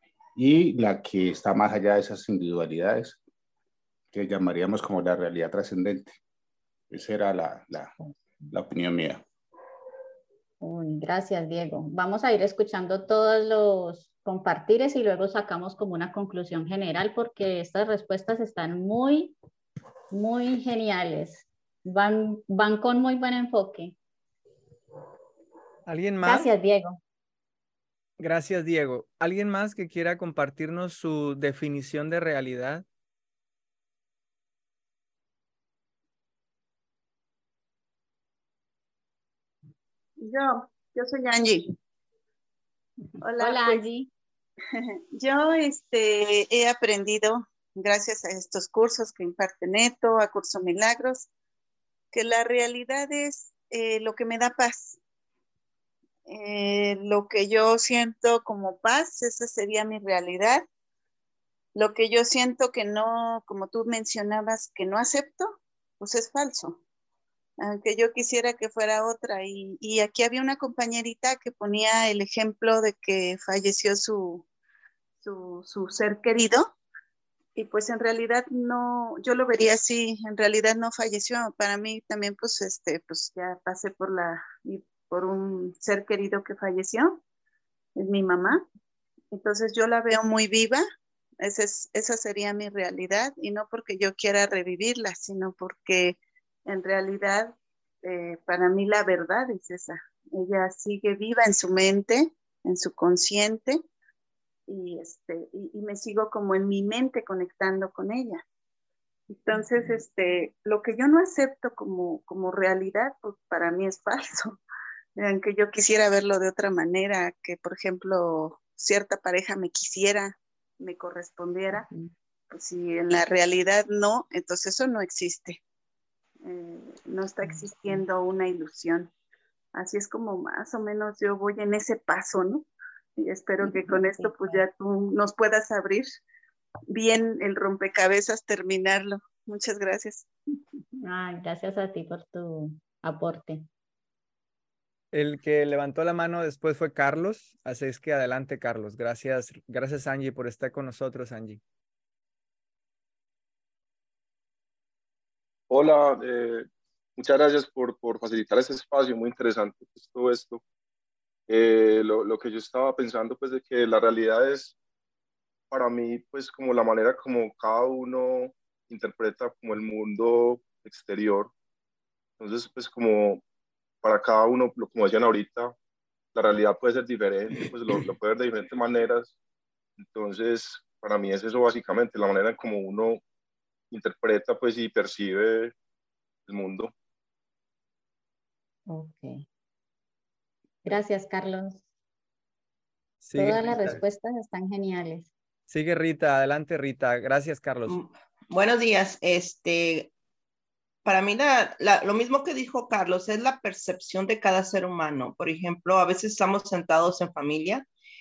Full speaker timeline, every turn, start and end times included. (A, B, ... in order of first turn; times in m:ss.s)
0:00.4-0:03.2 A
0:04.1-0:06.2 A
0:06.9-0:07.9 A
0:08.5-0:09.2 A
0:10.6-0:19.3 B
0:20.1-0:24.0 B
0:25.9-0:26.5 C
0:26.2-0:27.0 B
0:28.2-0:32.8 C
0:40.2-0:41.8 D
0:43.2-0:43.8 D
0:43.3-0:44.1 B
0:45.1-0:51.3 D
0:52.1-0:55.0 D
0:56.3-1:00.6 D
1:01.8-1:06.8 D
1:07.6-1:14.4 D
1:15.2-1:16.7 D
1:17.6-1:27.2 D
1:28.0-1:28.6 D
1:29.3-1:30.8 D
1:31.4-1:43.8 D
1:44.7-1:48.4 D
1:49.4-1:54.6 D
1:49.5-1:50.0 B
1:55.2-2:01.9 D
2:01.7-2:02.1 B
2:02.5-2:05.6 D
2:06.4-2:09.1 D
2:07.4-2:08.0 B
2:09.7-2:16.2 D
2:13.6-2:14.6 B
2:16.9-2:20.2 D
2:21.0-2:23.7 B
2:25.1-2:31.6 C
2:35.7-2:40.6 E
2:41.5-2:44.7 E
2:45.7-2:51.5 E
2:52.4-2:53.4 E
2:54.0-2:55.8 E
2:56.4-2:59.3 E
3:00.0-3:03.2 E
3:03.9-3:05.7 E
3:06.5-3:06.9 E
3:08.9-3:09.4 B
3:10.8-3:11.8 B
3:13.2-3:14.0 C
3:13.4-3:15.3 B
3:15.7-3:18.0 C
3:17.9-3:20.1 F
3:21.0-3:27.8 F